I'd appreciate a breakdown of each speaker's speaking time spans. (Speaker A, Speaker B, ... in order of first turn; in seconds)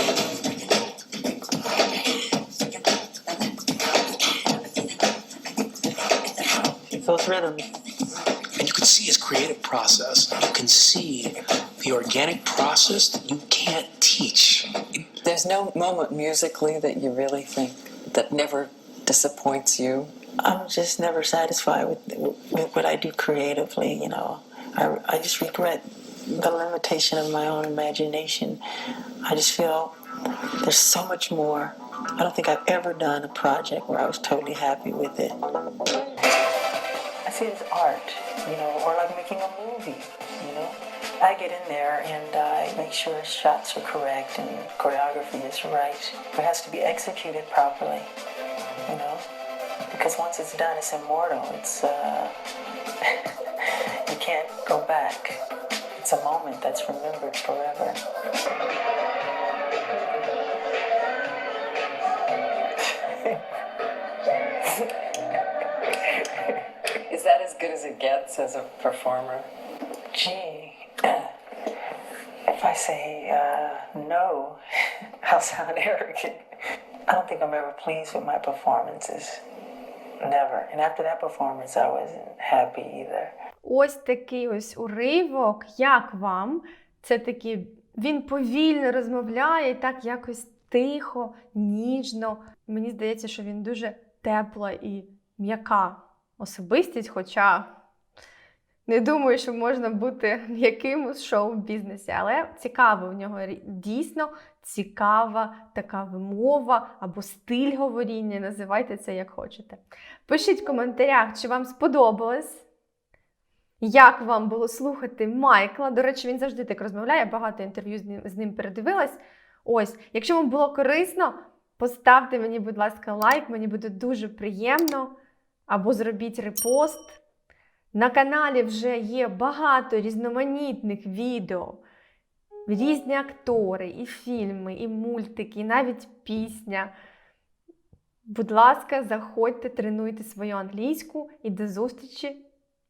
Speaker A: 6.9-7.7, 20.4-28.6, 29.2-29.9, 30.6-35.4, 37.2-48.1, 48.9-49.2, 49.9-52.3, 53.0-55.4, 56.0-58.0, 70.1-71.3, 72.5-74.6, 75.2-76.4, 77.1-79.4, 80.2-83.3
Speaker B: 8.6-15.0
Speaker C: 15.2-20.1, 67.1-69.5
Speaker D: 83.6-97.7, 98.8-112.6, 113.8-125.1, 125.7-127.2, 127.9-131.8, 132.7-136.9, 138.2-142.4